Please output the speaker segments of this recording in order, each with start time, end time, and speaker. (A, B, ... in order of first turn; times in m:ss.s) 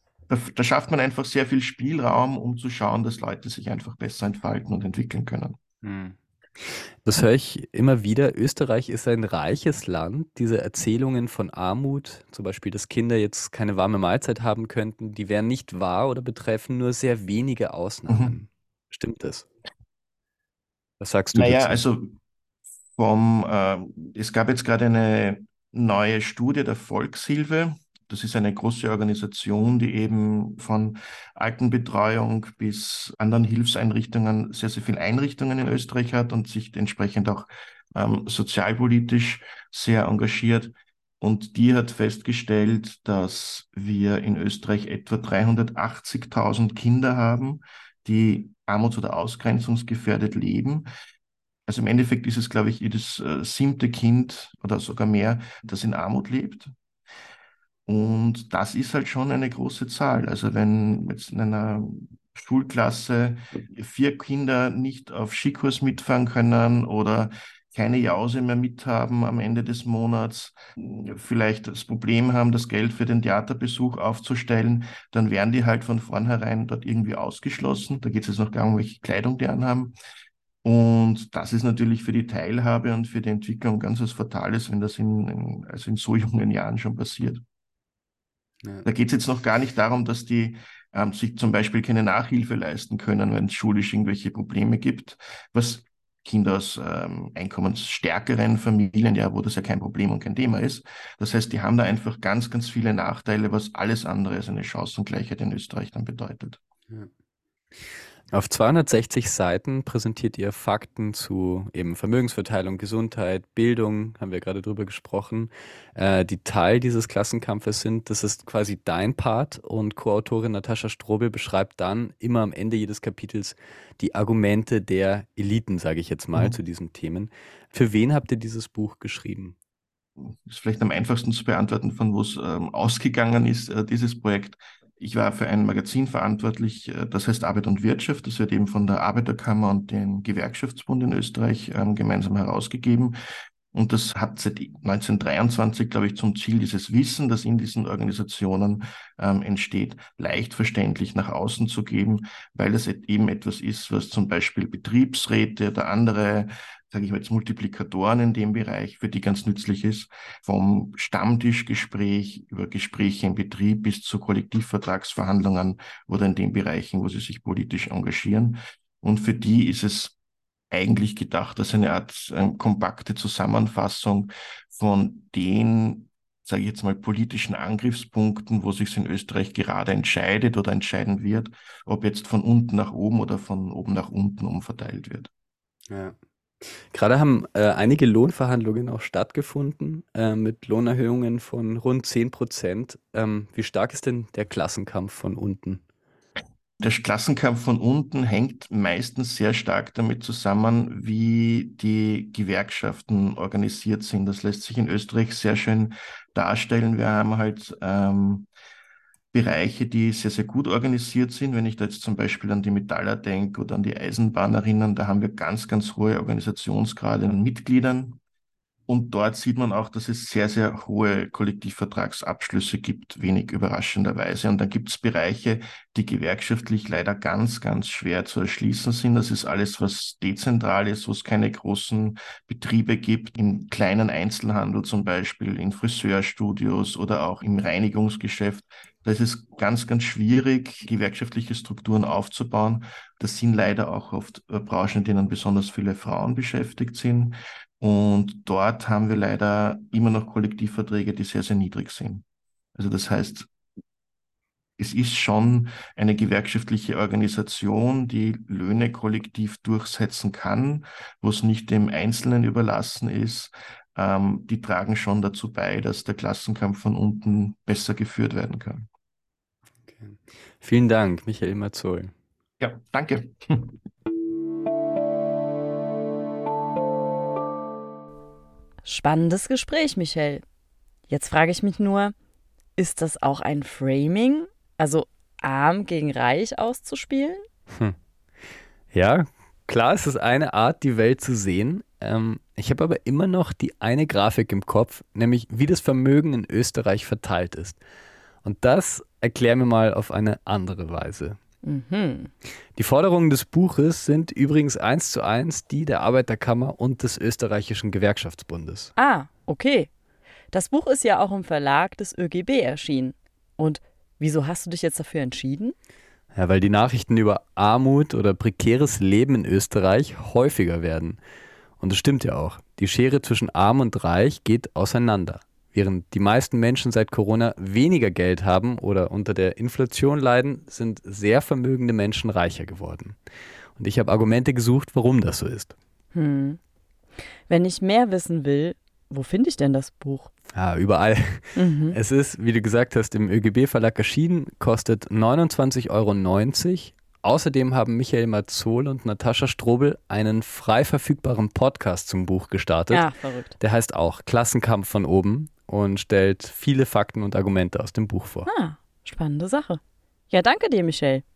0:00.3-0:05.6 A
0:05.8-0:19.5 B
0:18.1-0:18.4 A
0:21.0-0:21.8 B
0:21.3-0:22.1 A
0:23.0-0:50.9 A
0:51.7-0:56.7 A
0:57.9-1:19.9 A
1:20.6-1:27.4 A
1:28.8-1:46.6 A
1:48.3-2:09.6 B
2:10.2-2:23.2 A
2:23.7-2:50.2 A
2:50.7-3:05.3 A
3:05.9-3:15.8 B
3:16.8-3:28.5 A
3:29.3-3:38.2 A
3:38.9-4:12.2 A
4:12.8-4:13.5 A
4:14.8-4:28.9 A
4:29.8-4:32.1 B
4:32.6-4:33.8 A
4:38.8-4:40.4 C
4:41.1-4:42.1 C
4:42.8-4:47.4 C
4:48.9-4:57.8 B
4:58.4-5:01.4 B
5:01.6-5:02.3 C
5:02.8-5:08.9 B
5:09.0-5:09.9 C
5:10.5-5:15.8 C
5:16.4-5:21.2 B
5:21.8-5:33.2 B
5:33.8-5:35.7 B
5:36.1-5:36.6 C
5:37.5-5:40.3 C
5:40.6-5:53.1 B
5:41.6-5:42.0 C
5:52.9-5:53.5 C
5:53.6-5:58.5 B
5:58.5-6:01.2 C